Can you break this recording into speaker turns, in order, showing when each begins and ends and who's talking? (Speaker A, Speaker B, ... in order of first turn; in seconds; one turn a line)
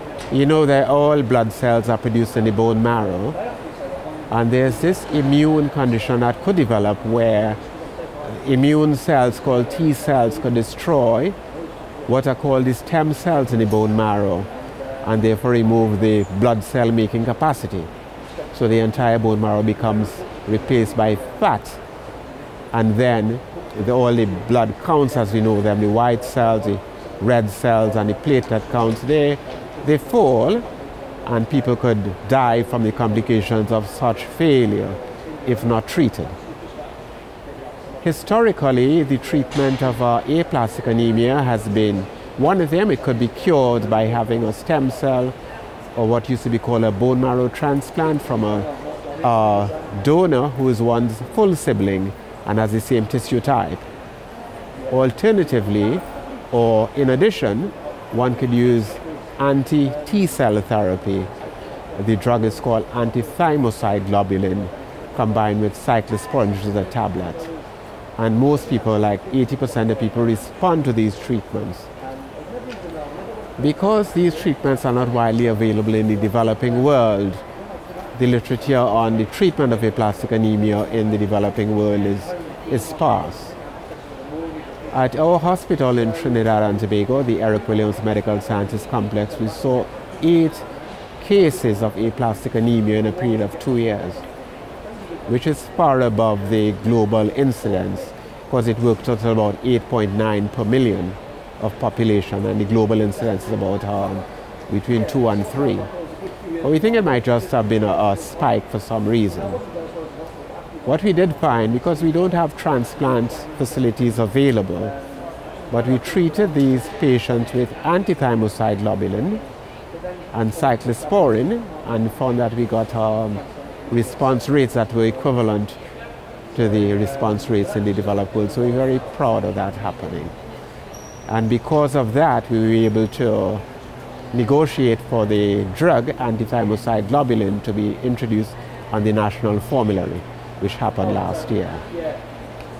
Speaker A: 0.3-3.4
Speaker A: 4.3-7.6
Speaker A: 8.2-11.4
Speaker A: 12.1-14.5
Speaker A: 15.0-17.9
Speaker A: 18.5-21.8
Speaker A: 22.7-30.7
Speaker A: 31.2-36.4
Speaker A: 38.0-45.3
Speaker A: 45.9-48.7
Speaker A: 49.2-53.9
Speaker A: 54.9-61.3
Speaker A: 61.9-67.5
Speaker A: 68.2-71.9
Speaker A: 73.6-77.4
Speaker A: 78.2-83.5
Speaker A: 84.9-90.7
Speaker A: 91.2-94.2
Speaker A: 95.3-105.9
Speaker A: 106.6-109.6
Speaker A: 110.8-114.9
Speaker A: 115.7-119.4
Speaker A: 120.3-125.8
Speaker A: 126.5-130.3
Speaker A: 131.3-133.6
Speaker A: 134.3-141.8